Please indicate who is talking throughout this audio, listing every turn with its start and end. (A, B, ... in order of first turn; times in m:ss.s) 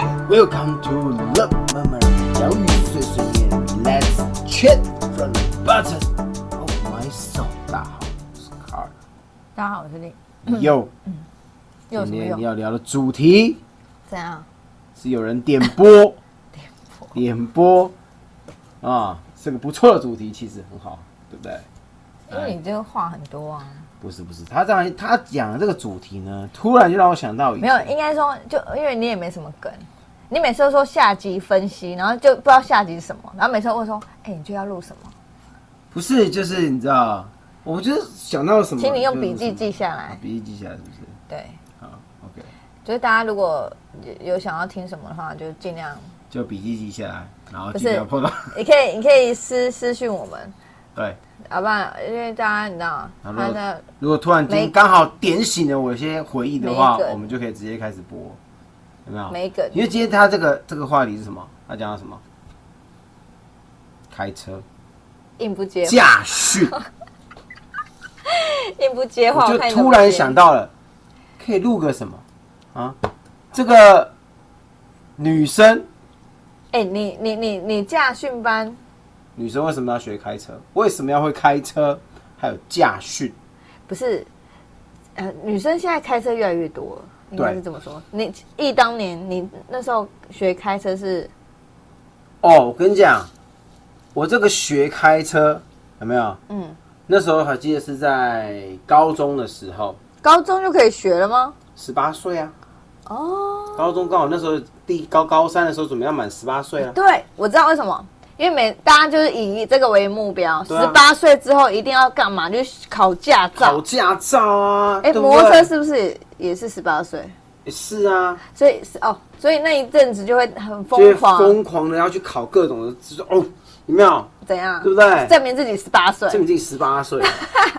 0:00.3-0:08.9 A
0:09.6-0:11.2 B
0:10.4-0:10.9 A
0:11.9-0:12.4 B
0:11.9-0:13.6 A
0:14.1-0:14.5 B
0:15.0-0:16.2 A
0:17.2-0:17.9 A
0:18.8-0:21.7 A
0:22.3-0:23.9 B
0:22.3-0:22.6 A
0:24.0-0:27.9 A
0:27.6-0:35.1 B
0:35.9-0:41.2 A
0:38.8-0:40.2 B
0:41.3-0:41.6 B
0:41.8-0:42.5 A
0:42.8-0:46.0 B
0:46.3-0:48.6 A
0:47.7-0:50.5 B
0:51.5-0:53.8 B
0:53.2-0:58.4 A
0:54.5-0:54.7 B
0:56.6-0:57.2 B
0:59.1-1:02.2 A
0:59.3-0:59.8 B
1:04.1-1:04.6 A
1:05.4-1:06.1 B
1:05.8-1:06.7 A
1:08.3-1:10.4 B
1:09.3-1:10.7 A
1:11.4-1:12.2 A
1:13.5-1:14.1 A
1:15.2-1:15.9 A
1:16.7-1:18.8 B
1:19.4-1:23.4 A
1:23.9-1:24.3 B
1:25.2-1:31.3 B
1:32.4-1:33.3 A
1:34.1-1:36.4 A
1:36.5-1:36.8 B
1:37.1-1:40.0 A
1:40.2-1:41.6 B
1:41.8-1:42.5 A
1:43.1-1:44.0 B
1:43.8-1:47.0 A
1:46.8-1:53.8 B
1:50.7-1:51.0 A
1:53.6-1:55.7 A
1:55.0-1:57.3 B
1:57.6-1:58.4 A
1:58.6-2:01.6 B
2:00.9-2:04.3 A
2:04.4-2:06.4 B
2:04.8-2:05.3 A
2:06.3-2:07.4 A